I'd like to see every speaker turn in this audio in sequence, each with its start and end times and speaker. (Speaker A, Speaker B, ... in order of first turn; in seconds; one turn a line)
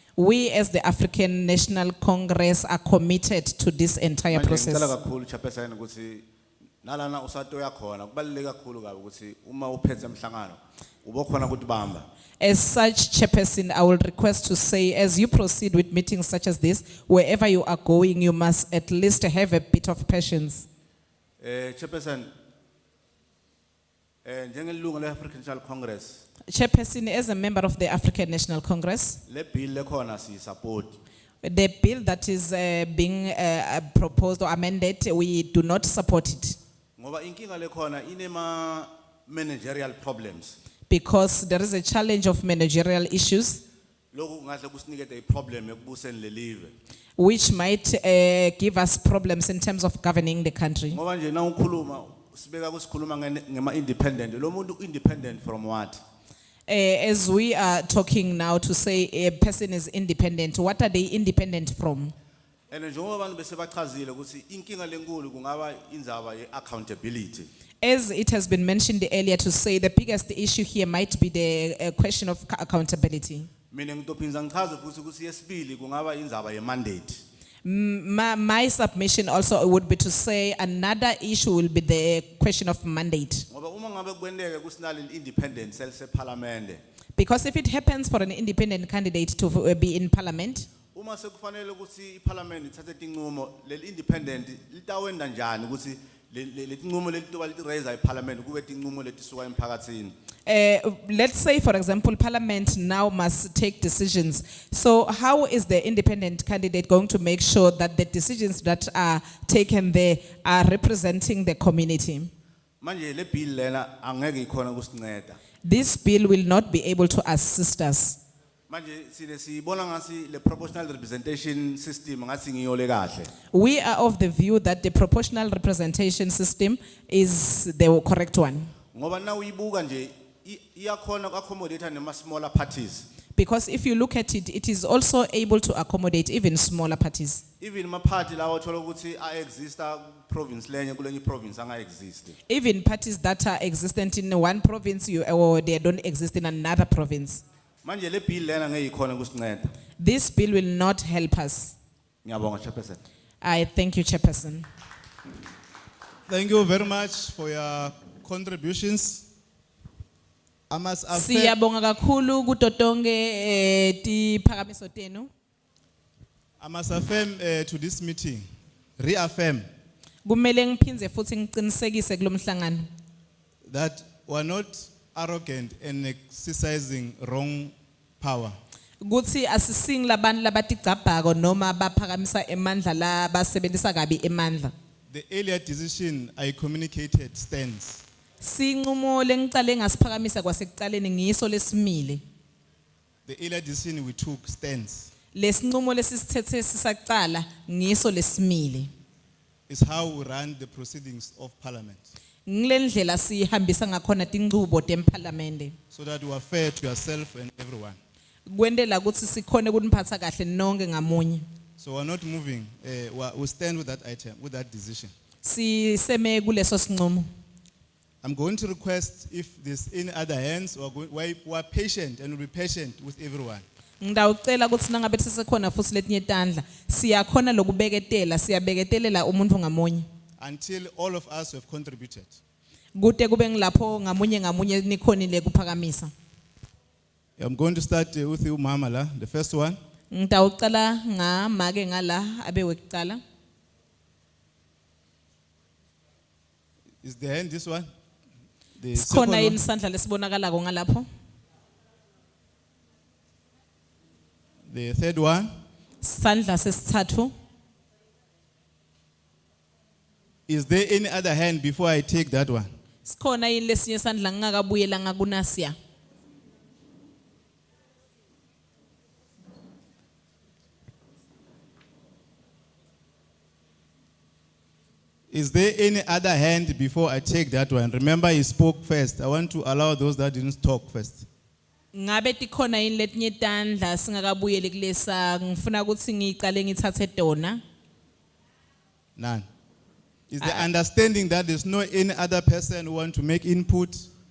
Speaker A: 0.2-4.9
Speaker B: 4.3-6.2
Speaker B: 6.8-12.1
Speaker A: 12.4-20.6
Speaker B: 21.4-22.3
Speaker B: 24.2-26.2
Speaker A: 26.5-29.2
Speaker B: 29.3-31.0
Speaker A: 31.4-36.6
Speaker B: 37.0-40.5
Speaker A: 40.9-43.6
Speaker B: 44.1-46.7
Speaker A: 47.2-51.0
Speaker B: 50.9-56.0
Speaker A: 56.7-62.1
Speaker B: 62.7-67.5
Speaker A: 67.8-73.5
Speaker B: 73.7-77.2
Speaker A: 77.6-83.5
Speaker B: 83.5-86.8
Speaker A: 87.2-90.7
Speaker B: 90.9-100.1
Speaker A: 100.5-112.3
Speaker B: 112.8-115.4
Speaker A: 115.6-118.2
Speaker B: 118.7-123.3
Speaker A: 123.5-128.7
Speaker B: 128.9-133.1
Speaker A: 133.3-137.4
Speaker B: 137.6-142.4
Speaker A: 142.5-147.4
Speaker B: 147.8-149.7
Speaker A: 150.0-151.7
Speaker B: 152.2-153.0
Speaker A: 153.4-154.7
Speaker C: 156.3-159.2
Speaker C: 160.7-161.5
Speaker A: 161.1-165.3
Speaker C: 166.6-168.4
Speaker C: 169.0-169.6
Speaker A: 170.2-172.9
Speaker C: 173.7-178.6
Speaker A: 179.0-184.7
Speaker C: 185.1-188.0
Speaker A: 188.4-192.2
Speaker C: 193.3-195.1
Speaker A: 195.3-198.9
Speaker C: 199.7-202.1
Speaker A: 202.4-205.8
Speaker C: 205.9-208.0
Speaker A: 208.5-211.4
Speaker C: 211.8-215.1
Speaker A: 215.4-217.3
Speaker C: 218.2-223.6
Speaker A: 224.0-230.1
Speaker C: 230.4-232.4
Speaker A: 232.9-236.1
Speaker C: 237.4-239.8
Speaker A: 240.1-243.2
Speaker C: 247.0-247.9
Speaker C: 248.8-249.6
Speaker A: 248.9-251.1
Speaker C: 254.7-255.5
Speaker A: 256.0-257.3
Speaker C: 260.5-262.7
Speaker A: 263.0-265.8
Speaker C: 275.3-281.3
Speaker A: 281.9-287.6
Speaker C: 289.2-289.4
Speaker C: 290.3-294.1
Speaker A: 290.4-290.7